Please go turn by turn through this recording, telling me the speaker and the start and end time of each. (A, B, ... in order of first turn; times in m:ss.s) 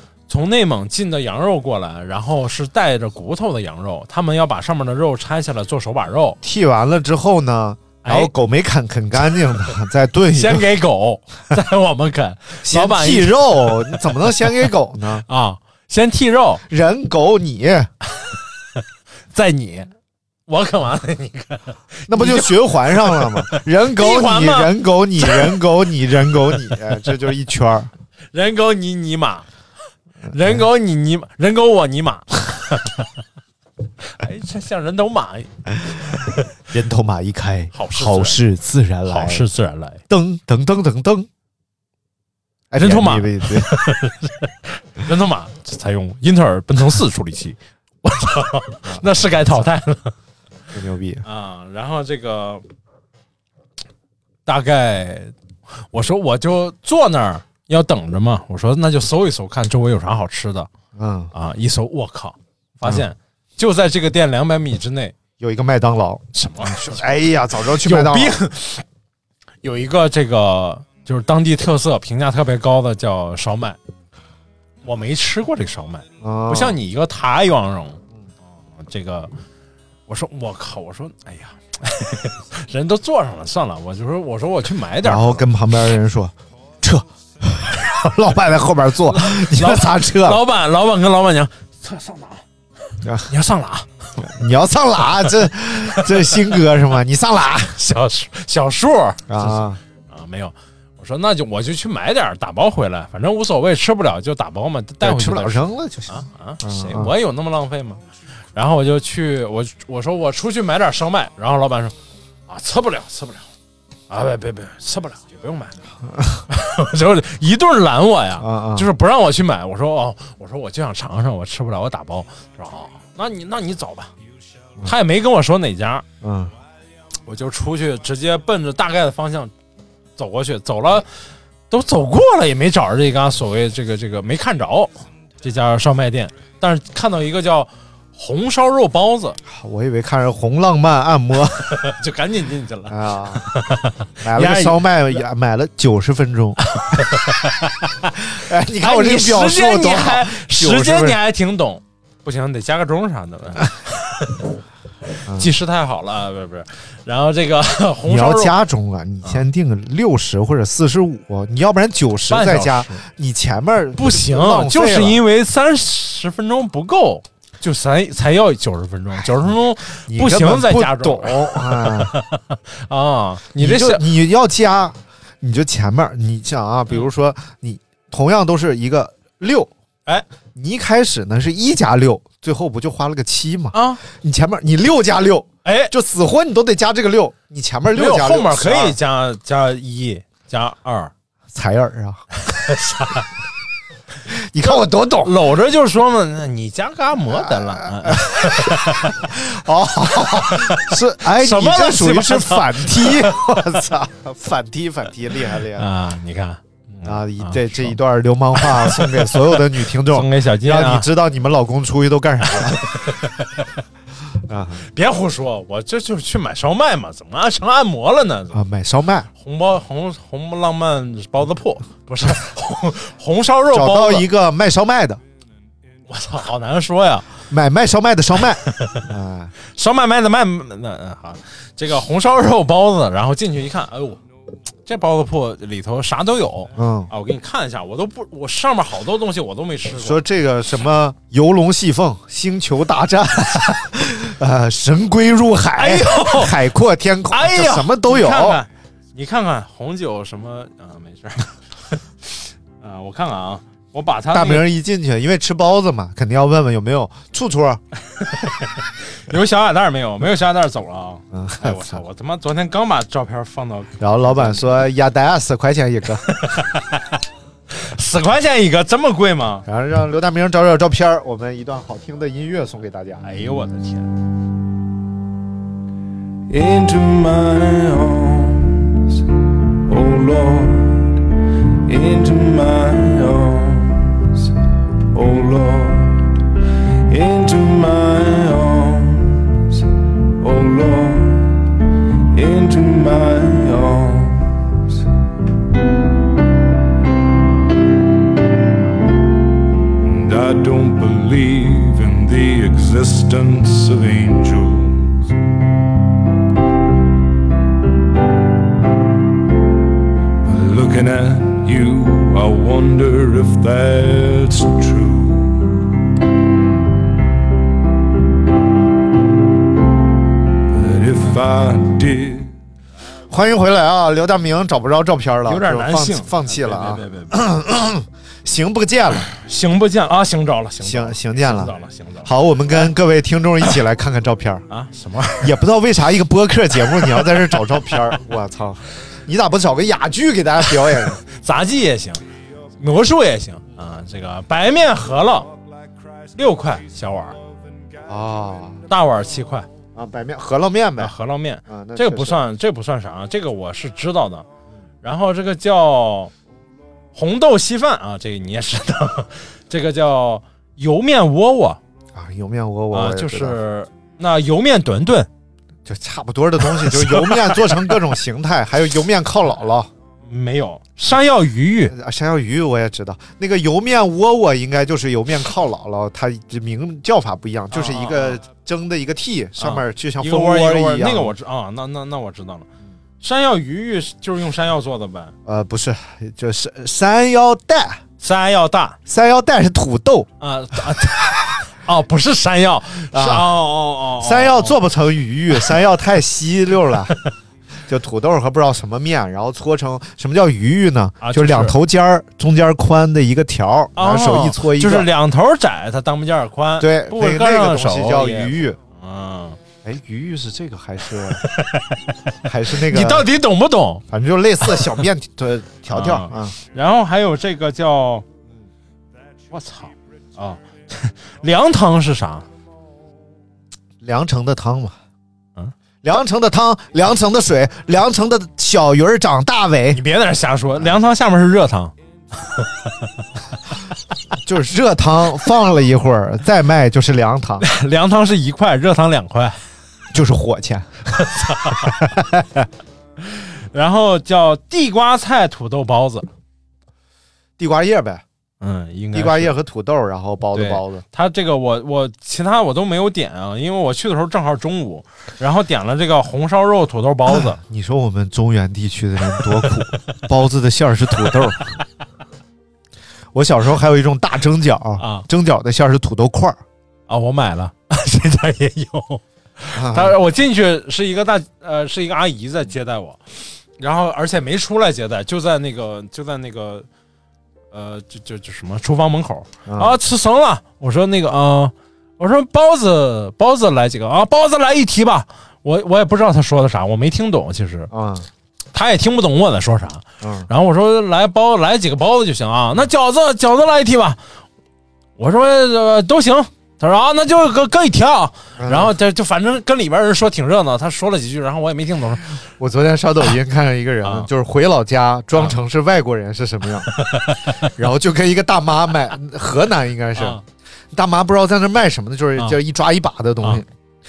0:00.3-0:06.4 A
0:06.4-0:10.7 B
0:08.0-0:08.3 A
0:10.3-0:14.5 A
0:12.6-0:15.2 B
0:15.3-0:16.6 A
0:16.7-0:17.9 B
0:19.3-0:19.9 A
0:20.5-0:25.6 A
0:22.1-0:27.9 B
0:28.3-0:29.5 A
0:30.3-0:33.0 A
0:30.3-0:30.6 B
0:34.1-0:36.2 A
0:36.7-0:39.5 B
0:37.7-0:38.4 A
0:39.1-0:40.0 A
0:40.1-0:41.3 B
0:42.7-0:43.7 B
0:42.8-0:50.1 A
0:48.9-0:49.5 B
0:50.7-0:51.2 B
0:51.2-0:52.6 A
0:54.5-0:55.3 A
0:55.9-1:00.7 A
1:01.0-1:01.3 B
1:01.3-1:05.2 A
1:05.4-1:08.4 B
1:06.3-1:07.0 A
1:07.8-1:08.8 A
1:09.6-1:13.8 A
1:14.8-1:18.0 A
1:16.2-1:16.8 B
1:18.8-1:19.3 A
1:20.1-1:25.5 A
1:25.0-1:30.4 B
1:29.1-1:32.4 A
1:33.0-1:33.3 B
1:33.3-1:33.9 A
1:34.2-1:37.8 B
1:36.0-1:36.4 A
1:37.8-1:48.0 A
1:39.3-1:39.8 B
1:45.0-1:47.1 B
1:48.6-1:52.0 A
1:52.5-1:53.5 A
1:54.1-1:55.8 A
1:56.1-1:56.4 B
1:56.5-2:04.1 A
1:58.4-1:58.9 B
2:04.8-2:06.0 A
2:06.2-2:06.5 B
2:07.3-2:09.5 A
2:10.2-2:11.1 A
2:11.7-2:19.4 A
2:19.5-2:21.8 B
2:21.7-2:25.2 A
2:22.9-2:23.4 B
2:24.2-2:26.6 B
2:26.6-2:28.3 A
2:28.3-2:31.2 B
2:28.8-2:34.5 A
2:35.3-2:35.5 B
2:35.4-2:38.6 A
2:38.1-2:45.2 B
2:42.3-2:43.0 A
2:44.0-2:54.1 A
2:50.1-2:52.1 B
2:53.6-2:59.7 B
3:00.6-3:09.0 B
3:03.7-3:04.0 A
3:05.6-3:05.9 A
3:07.9-3:11.1 A
3:11.5-3:12.2 B
3:12.5-3:13.3 A
3:14.3-3:15.4 B
3:14.6-3:19.3 A
3:17.3-3:25.9 B
3:20.2-3:23.5 A
3:25.8-3:28.0 A
3:27.0-3:32.8 B
3:28.6-3:31.1 A
3:32.5-3:33.6 A
3:34.5-3:34.8 B
3:34.9-3:38.6 A
3:38.5-3:39.3 B
3:39.4-3:44.3 A
3:43.7-3:45.2 B
3:46.1-3:47.3 A
3:47.5-3:49.5 B
3:48.6-3:49.0 A
3:49.7-3:54.2 A
3:54.9-4:00.2 A
3:56.8-3:57.1 B
3:59.9-4:08.6 B
4:05.8-4:06.6 A
4:07.3-4:14.7 A
4:14.3-4:17.8 B
4:18.2-4:24.6 A
4:21.3-4:22.0 B
4:24.0-4:26.3 B
4:26.3-4:27.2 A
4:27.7-4:29.6 A
4:29.7-4:33.3 B
4:33.2-4:34.1 A
4:36.5-4:39.0 C
4:39.9-4:41.2 C
4:41.9-4:44.5 C
4:45.1-4:46.3 C
4:47.1-4:49.8 C
4:50.4-4:51.6 C
4:52.3-4:54.8 C
5:00.0-5:05.3 C
5:10.4-5:15.8 C
5:20.7-5:22.5 C
5:23.3-5:29.3 B
5:25.5-5:27.4 A
5:29.3-5:32.3 A
5:30.8-5:34.6 B
5:34.7-5:35.5 A
5:35.4-5:41.2 B
5:41.3-5:42.2 A
5:42.8-5:45.5 A
5:46.4-5:47.4 A
5:48.1-5:48.8 B
5:48.9-5:49.7 A
5:50.0-5:51.1 B
5:51.0-5:54.5 A
5:51.7-5:52.4 B
5:55.0-5:56.3 A
5:57.1-6:01.8 A
6:02.2-6:03.6 B
6:02.9-6:05.3 A
6:05.9-6:09.9 B
6:06.6-6:08.0 A
6:10.3-6:11.9 A
6:11.9-6:21.3 B
6:17.7-6:18.4 A
6:19.6-6:22.7 A
6:23.2-6:25.3 A
6:25.5-6:28.0 B
6:28.2-6:29.0 A
6:29.1-6:30.3 B
6:30.4-6:34.8 A
6:33.1-6:33.5 B
6:34.2-6:37.2 B
6:37.9-6:45.1 B
6:41.2-6:41.8 A
6:44.0-6:49.6 A
6:46.8-6:48.8 B
6:49.8-6:51.4 B
6:51.4-6:52.0 A
6:52.4-6:53.3 B
6:52.7-6:54.0 A
6:54.1-6:56.6 B
6:54.6-6:55.0 A
6:55.9-6:58.2 A
6:59.5-7:02.5 A
7:04.0-7:05.0 B
7:06.0-7:10.0 B
7:09.9-7:11.9 A
7:12.4-7:13.1 A
7:14.4-7:17.6 B
7:17.6-7:19.6 A
7:20.1-7:21.1 B
7:21.1-7:22.0 A
7:21.8-7:22.7 B
7:23.2-7:26.3 A
7:27.6-7:28.2 B
7:28.6-7:29.6 A
7:29.1-7:31.0 B
7:30.5-7:37.6 A
7:37.3-7:41.7 B
7:43.3-7:46.6 B
7:45.0-7:45.3 A
7:47.1-7:53.2 A
7:49.8-7:50.2 B
7:53.8-7:56.9 A
7:57.7-8:07.9 A
7:59.7-8:00.0 B
8:07.9-8:08.3 B
8:08.7-8:14.2 A
8:10.2-8:10.5 B
8:15.2-8:22.4 A
8:18.6-8:18.9 B
8:22.4-8:26.9 B
8:24.0-8:24.3 A
8:26.9-8:27.7 A
8:27.6-8:30.4 B
8:30.2-8:30.4 A
8:30.9-8:33.7 B